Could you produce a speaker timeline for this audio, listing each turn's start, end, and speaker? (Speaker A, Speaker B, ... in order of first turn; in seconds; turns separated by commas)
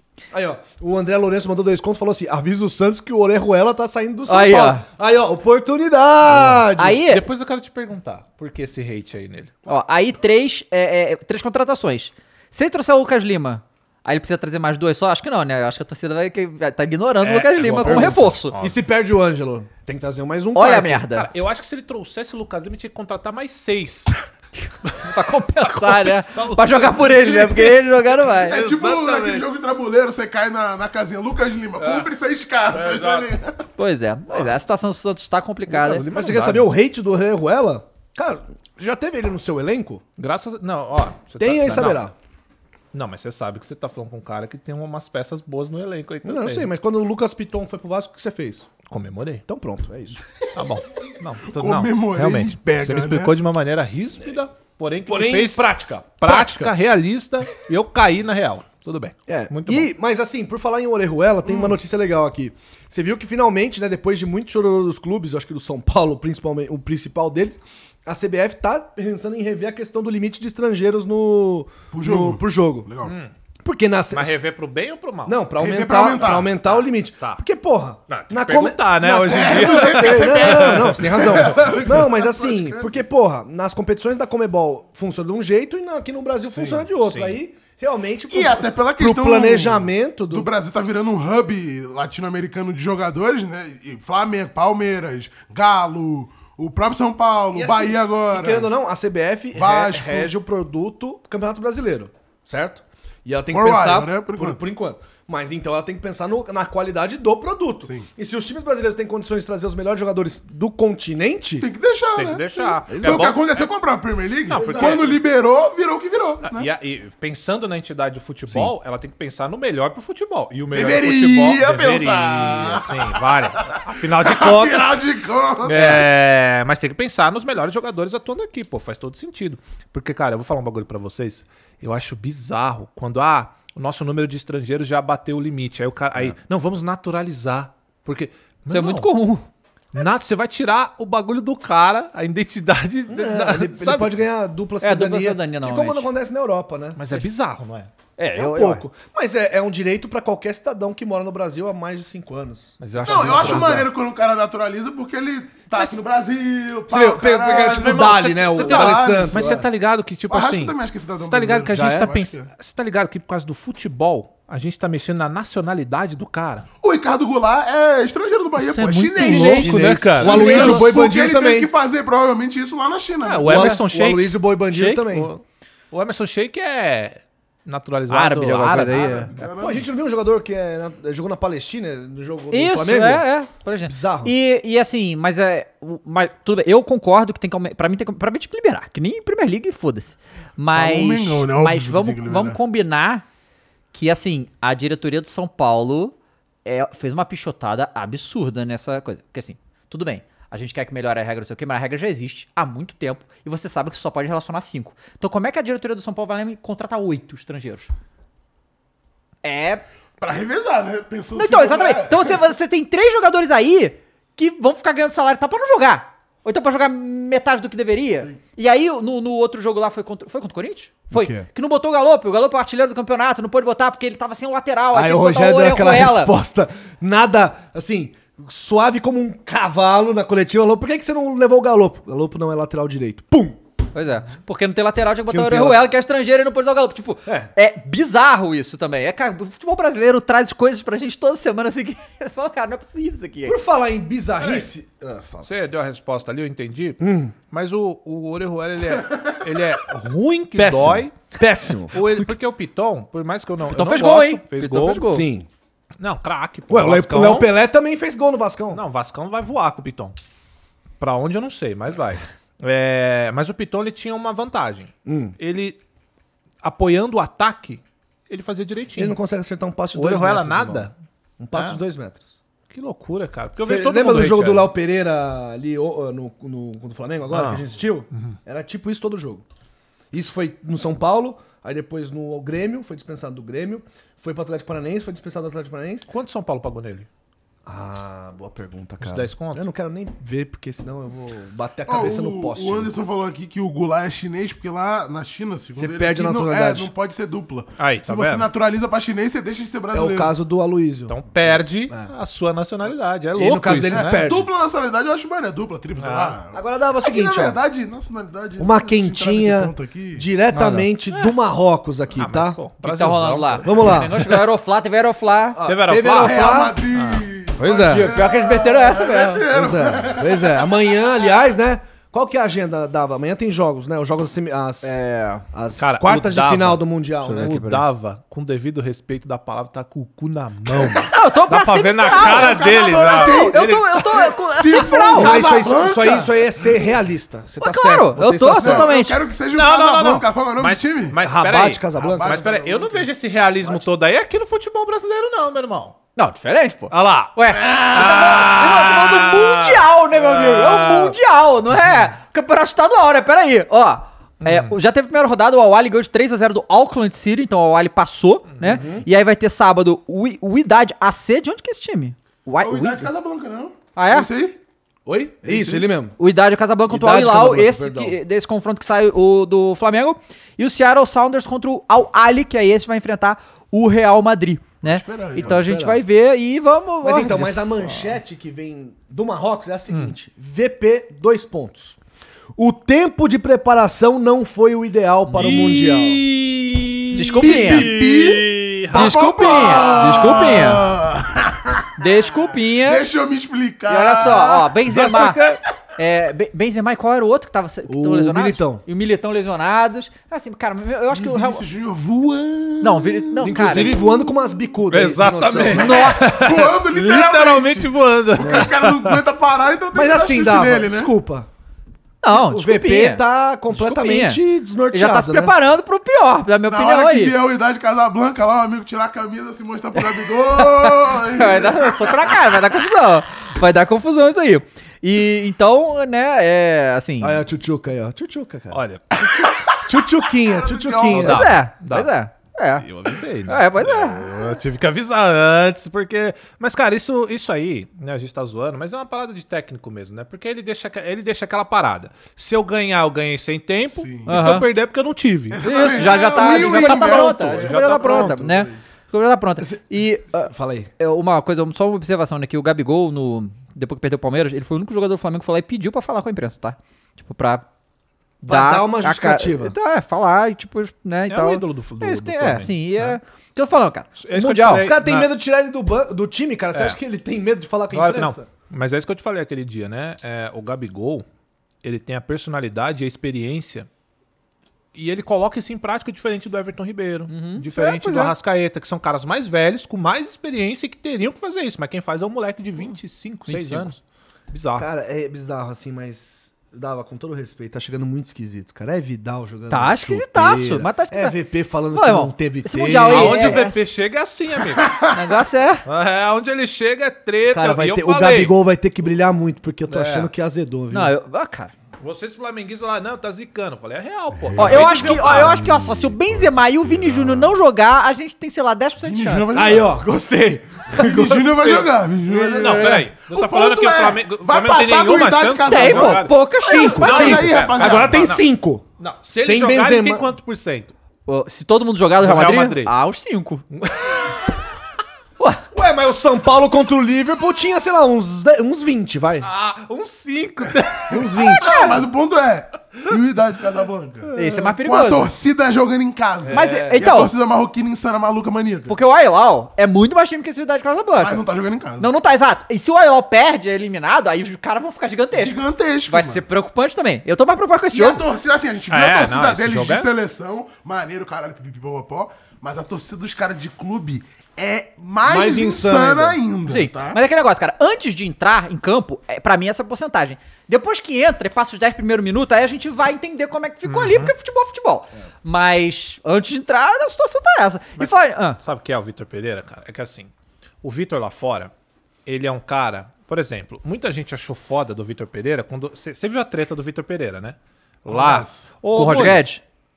Speaker A: 0.3-7.0, Speaker B: 4.3-4.8, Speaker C: 6.3-9.5, Speaker B: 6.8-7.2, Speaker B: 9.7-18.5, Speaker C: 17.2-18.8, Speaker A: 17.6-21.0, Speaker B: 20.5-21.3, Speaker C: 21.1-24.2, Speaker B: 24.6-28.6, Speaker C: 25.6-29.5, Speaker D: 28.3-33.6, Speaker C: 31.8-32.1, Speaker C: 32.7-33.3, Speaker B: 33.8-36.1, Speaker A: 35.7-40.0, Speaker C: 36.1-36.7, Speaker C: 40.2-42.0, Speaker A: 41.4-42.1, Speaker C: 42.9-46.7, Speaker A: 46.2-48.7, Speaker C: 48.9-49.4, Speaker A: 49.5-50.2, Speaker C: 50.5-55.6, Speaker D: 51.5-53.3, Speaker A: 55.1-56.7, Speaker C: 56.2-59.9, Speaker A: 59.3-72.9, Speaker D: 61.5-61.7, Speaker D: 71.9-73.1, Speaker C: 73.0-73.3, Speaker A: 73.6-74.3, Speaker C: 74.1-75.4, Speaker A: 75.2-90.5, Speaker D: 75.6-76.5, Speaker C: 76.6-77.4, Speaker C: 78.1-81.3, Speaker D: 79.2-83.0, Speaker D: 86.5-86.8, Speaker C: 87.0-87.4, Speaker D: 88.3-98.7, Speaker A: 97.5-111.7, Speaker D: 99.5-100.3, Speaker D: 103.5-104.6, Speaker D: 111.6-116.7, Speaker C: 112.1-113.4, Speaker A: 112.9-113.3, Speaker C: 114.5-115.2, Speaker A: 114.5-115.1, Speaker C: 116.4-125.0, Speaker A: 118.5-118.7, Speaker D: 120.7-126.1, Speaker C: 125.6-139.1, Speaker B: 138.7-139.4, Speaker C: 139.9-144.1, Speaker A: 143.1-147.0, Speaker B: 144.8-146.1, Speaker C: 146.9-147.9, Speaker B: 148.2-148.8, Speaker A: 148.3-153.9, Speaker C: 152.8-153.8, Speaker D: 153.0-159.7, Speaker C: 155.7-156.0, Speaker A: 156.9-159.6, Speaker C: 157.5-166.7, Speaker D: 160.3-162.5, Speaker A: 161.7-162.1, Speaker D: 166.8-173.7, Speaker C: 168.6-170.9, Speaker A: 169.1-171.7, Speaker C: 173.2-174.3, Speaker A: 173.5-175.3, Speaker B: 173.5-173.8, Speaker B: 174.7-175.0, Speaker C: 175.0-179.5, Speaker B: 178.1-179.3, Speaker D: 178.9-179.9, Speaker A: 179.6-183.3, Speaker B: 182.5-193.2, Speaker A: 183.9-184.3, Speaker D: 190.7-192.6, Speaker B: 193.9-207.9, Speaker B: 209.4-209.8, Speaker D: 210.2-212.4, Speaker B: 211.3-226.3, Speaker A: 221.1-221.5, Speaker A: 224.9-233.6, Speaker B: 233.9-243.6, Speaker A: 235.3-235.9, Speaker A: 243.4-245.5, Speaker C: 245.4-251.2, Speaker A: 247.0-247.3, Speaker A: 250.5-251.9, Speaker C: 251.9-255.1, Speaker B: 253.7-255.2, Speaker A: 255.1-255.5, Speaker C: 256.0-257.5, Speaker A: 256.7-258.8, Speaker C: 258.7-260.1, Speaker C: 261.0-265.8, Speaker A: 265.0-265.4, Speaker C: 266.6-269.2, Speaker A: 268.9-272.2, Speaker C: 269.9-270.9, Speaker C: 271.5-271.8, Speaker C: 272.7-274.7, Speaker A: 273.6-279.4, Speaker C: 277.3-278.4, Speaker A: 280.1-286.1, Speaker C: 286.1-287.1, Speaker A: 287.6-292.9, Speaker C: 289.0-289.6, Speaker D: 291.9-300.3, Speaker A: 295.7-296.9, Speaker C: 297.8-298.5, Speaker A: 299.9-302.1, Speaker C: 301.1-304.2, Speaker A: 303.4-304.5, Speaker D: 303.9-310.2, Speaker C: 306.0-306.4, Speaker A: 306.5-307.6, Speaker A: 308.6-312.6, Speaker B: 310.5-310.9, Speaker C: 311.1-311.4, Speaker C: 312.1-314.4, Speaker B: 312.8-315.6, Speaker A: 313.6-314.3, Speaker A: 315.5-316.8, Speaker C: 315.6-317.2, Speaker D: 316.2-320.7, Speaker A: 317.6-318.1, Speaker B: 317.9-319.4, Speaker A: 319.5-327.8, Speaker B: 324.8-325.4, Speaker C: 325.8-333.7, Speaker B: 331.0-335.4, Speaker D: 332.0-336.7, Speaker A: 335.1-338.9, Speaker B: 337.6-339.2, Speaker D: 338.6-341.1, Speaker C: 339.5-345.9, Speaker A: 341.2-342.4, Speaker D: 341.9-343.1, Speaker B: 346.1-363.1, Speaker C: 346.9-351.1, Speaker C: 354.4-354.7, Speaker A: 358.6-359.1, Speaker D: 362.6-364.6, Speaker B: 363.9-364.3, Speaker A: 365.0-366.2, Speaker D: 365.4-365.9, Speaker B: 366.2-378.1, Speaker A: 366.9-368.2, Speaker D: 374.8-375.6, Speaker A: 375.4-376.0, Speaker A: 377.0-382.0, Speaker A: 382.6-386.2, Speaker C: 385.3-389.7, Speaker B: 387.1-387.9, Speaker D: 387.4-394.7, Speaker B: 388.9-390.8, Speaker B: 392.0-393.0, Speaker B: 393.9-395.4, Speaker A: 394.9-395.6, Speaker B: 396.0-401.6, Speaker A: 397.9-398.8, Speaker D: 401.1-404.3, Speaker B: 402.8-404.0, Speaker A: 403.4-406.1, Speaker C: 404.9-409.2, Speaker B: 405.6-406.4, Speaker D: 405.9-411.1, Speaker A: 408.4-408.7, Speaker A: 409.9-411.5, Speaker B: 412.2-417.4, Speaker A: 412.3-415.6, Speaker D: 416.6-422.3, Speaker B: 420.5-427.4, Speaker A: 427.2-428.8, Speaker C: 428.7-429.0, Speaker A: 429.4-431.6, Speaker D: 430.5-431.2, Speaker C: 431.1-432.1, Speaker B: 431.1-432.9, Speaker C: 432.8-448.4, Speaker B: 433.4-434.2, Speaker D: 443.9-444.4, Speaker B: 444.3-444.7, Speaker D: 445.5-448.8, Speaker B: 445.6-457.6, Speaker A: 449.6-450.9, Speaker A: 458.4-459.7, Speaker B: 458.4-464.9, Speaker C: 461.3-463.2, Speaker C: 464.2-465.3, Speaker A: 464.6-468.5, Speaker C: 466.7-467.0, Speaker C: 468.0-471.2, Speaker C: 471.8-473.9, Speaker C: 474.9-484.9, Speaker B: 477.3-478.3, Speaker B: 483.5-483.9, Speaker A: 483.6-483.8, Speaker A: 484.8-493.6, Speaker B: 489.7-491.4, Speaker B: 491.9-493.8, Speaker C: 493.1-494.9, Speaker B: 495.1-495.8, Speaker C: 495.9-498.5, Speaker A: 497.5-501.1, Speaker C: 499.9-500.3, Speaker B: 500.9-501.7, Speaker C: 502.0-505.7, Speaker D: 504.6-505.6, Speaker B: 504.6-509.5, Speaker D: 509.0-510.0, Speaker A: 509.5-513.0, Speaker D: 510.9-518.4, Speaker C: 512.3-518.4, Speaker B: 515.6-517.5, Speaker A: 516.6-520.3, Speaker C: 519.0-520.9, Speaker B: 521.3-523.6, Speaker C: 522.2-522.9, Speaker C: 523.7-524.4, Speaker A: 525.7-529.5, Speaker C: 529.4-531.2, Speaker A: 531.1-531.8, Speaker D: 531.1-538.9, Speaker B: 531.6-532.0, Speaker B: 534.4-535.3, Speaker A: 536.4-537.0, Speaker B: 536.5-537.3, Speaker B: 538.9-541.4, Speaker D: 541.2-542.1, Speaker B: 542.0-548.2, Speaker D: 545.3-546.4, Speaker D: 547.9-557.2, Speaker C: 548.9-550.1, Speaker A: 555.2-556.4, Speaker B: 556.6-568.6, Speaker C: 563.9-564.3, Speaker C: 568.0-570.3, Speaker C: 570.8-571.7, Speaker C: 572.2-579.5, Speaker D: 578.1-578.6, Speaker B: 578.9-579.6